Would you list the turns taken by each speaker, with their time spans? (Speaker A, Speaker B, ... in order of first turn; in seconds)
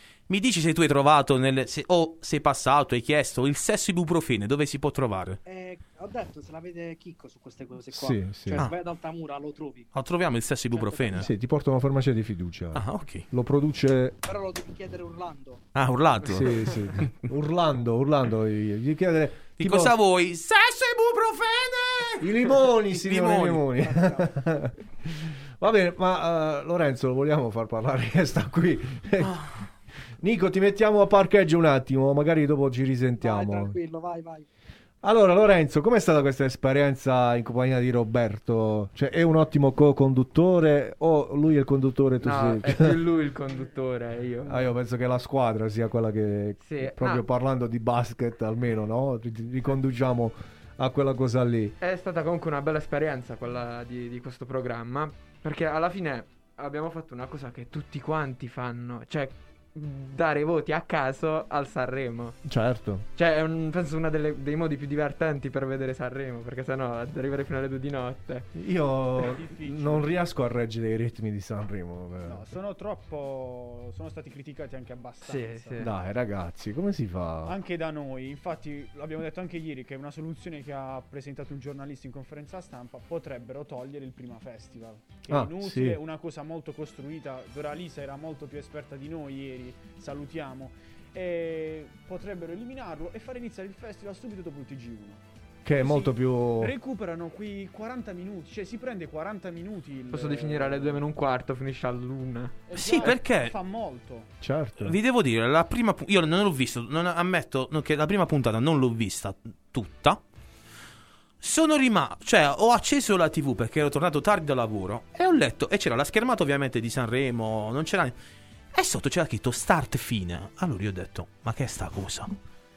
Speaker A: 0.3-5.4, 9.9-11.2, 12.7-13.2, 15.8-17.0, 19.6-22.3, 22.9-23.6, 102.7-103.5, 104.8-110.2, 111.4-118.2, 118.7-122.3
Speaker B: 5.5-9.9, 10.7-11.3, 14.2-15.6, 23.8-24.2, 33.2-34.5
Speaker C: 7.9-8.7, 11.2-14.2, 16.2-19.9, 22.2-29.4, 30.2-33.8, 35.0-43.0, 44.5-51.8, 62.4-63.0, 68.5-72.4, 75.8-77.6, 85.3-86.0, 95.7-96.7, 104.4-105.0
Speaker D: 42.2-44.7, 46.6-47.2, 51.8-62.4, 63.2-68.5, 75.2-75.9, 100.1-102.6
Speaker E: 69.2-70.1, 72.2-75.8, 77.5-95.2, 95.8-101.0, 102.7-104.3